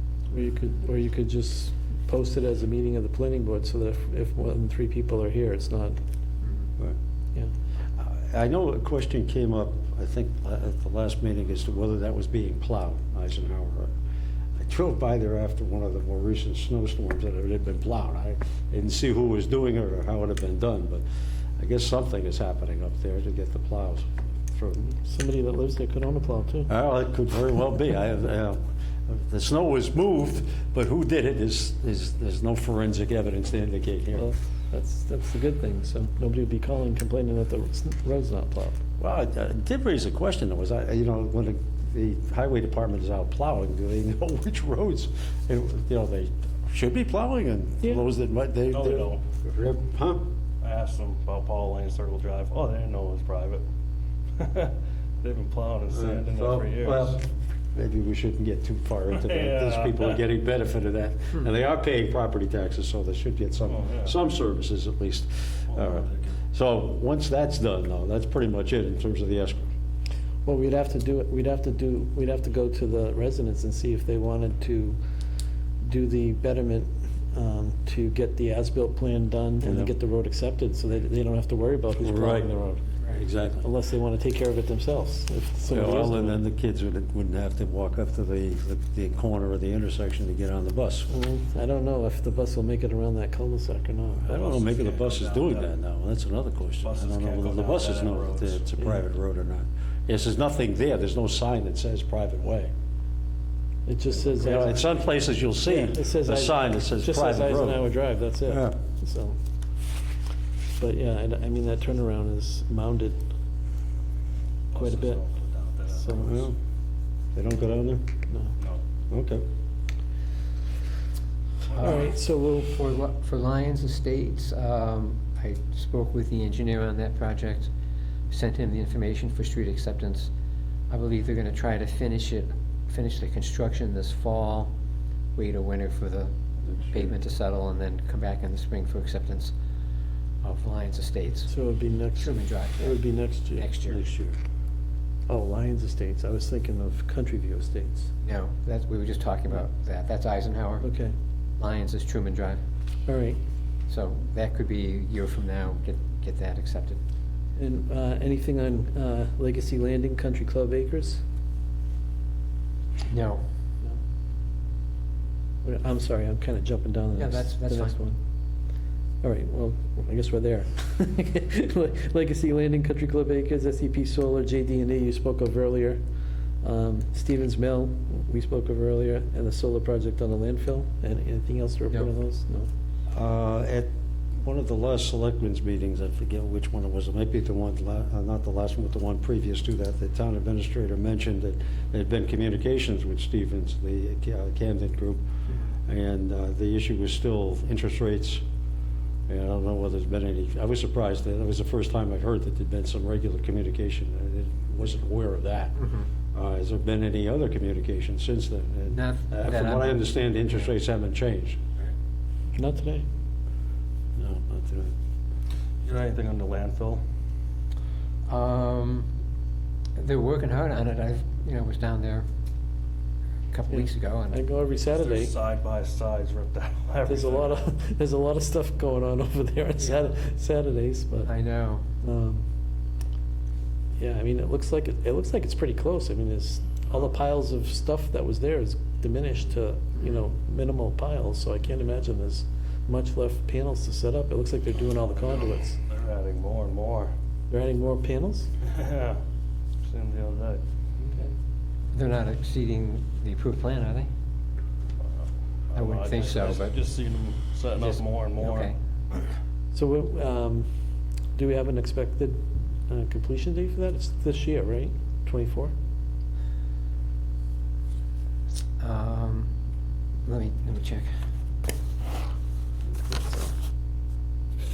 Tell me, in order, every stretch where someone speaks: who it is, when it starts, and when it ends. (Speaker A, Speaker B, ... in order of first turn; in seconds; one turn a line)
Speaker A: 0.3-6.0
Speaker B: 8.0-13.9
Speaker B: 14.6-21.0
Speaker B: 21.6-24.9
Speaker A: 25.0-26.7
Speaker B: 26.7-34.3
Speaker A: 34.2-38.8
Speaker B: 39.0-50.3
Speaker C: 48.7-49.2
Speaker C: 50.6-53.6
Speaker C: 54.4-57.2
Speaker B: 55.9-69.7
Speaker C: 59.1-60.2
Speaker C: 63.7-64.1
Speaker C: 65.7-66.3
Speaker A: 70.5-75.0
Speaker A: 75.8-82.8
Speaker B: 79.6-79.9
Speaker B: 82.0-82.5
Speaker B: 83.1-83.6
Speaker A: 83.5-86.4
Speaker B: 85.7-91.1
Speaker A: 91.1-94.3
Speaker C: 94.2-95.7
Speaker B: 94.3-102.7
Speaker C: 96.8-98.6
Speaker A: 103.9-104.9
Speaker B: 104.2-107.9
Speaker A: 105.6-109.4
Speaker B: 108.5-108.8
Speaker A: 110.8-113.2
Speaker C: 114.7-116.5
Speaker A: 114.8-115.2
Speaker A: 115.9-116.4
Speaker B: 116.2-116.6
Speaker B: 117.3-118.1
Speaker B: 119.1-119.5
Speaker D: 121.7-127.7
Speaker A: 121.8-122.8
Speaker D: 128.3-130.3
Speaker D: 130.9-134.7
Speaker D: 135.4-136.3
Speaker B: 136.8-137.0
Speaker D: 136.9-139.5
Speaker D: 140.4-141.5
Speaker A: 141.4-143.7
Speaker D: 142.2-143.0
Speaker D: 143.5-144.0
Speaker B: 143.9-144.4
Speaker A: 145.3-148.1
Speaker D: 148.2-150.8
Speaker A: 150.8-151.1
Speaker D: 151.6-152.6
Speaker A: 153.1-153.4
Speaker D: 153.9-157.0
Speaker A: 157.6-161.2
Speaker D: 163.1-163.4
Speaker A: 165.6-168.2
Speaker D: 167.2-168.0
Speaker A: 169.2-176.0
Speaker A: 176.6-182.7
Speaker B: 183.1-195.2
Speaker B: 195.9-198.4
Speaker B: 199.3-205.8
Speaker D: 205.8-206.1
Speaker B: 206.3-211.6
Speaker D: 208.9-210.7
Speaker A: 212.6-213.1
Speaker B: 214.2-214.9
Speaker C: 215.8-217.0
Speaker D: 218.3-219.1
Speaker D: 220.0-222.3
Speaker D: 223.5-224.4
Speaker A: 223.7-225.3
Speaker C: 224.9-227.6
Speaker A: 227.1-231.3
Speaker D: 231.2-231.9
Speaker A: 232.0-232.4
Speaker A: 234.0-245.8
Speaker C: 245.3-247.1
Speaker A: 247.5-248.5
Speaker C: 248.6-249.2
Speaker C: 249.8-250.6
Speaker D: 251.9-254.1
Speaker C: 255.0-258.7
Speaker D: 255.8-256.8
Speaker D: 257.8-258.8
Speaker A: 259.7-260.7
Speaker A: 261.4-265.7
Speaker D: 268.8-269.5
Speaker D: 270.2-271.1
Speaker A: 272.9-273.5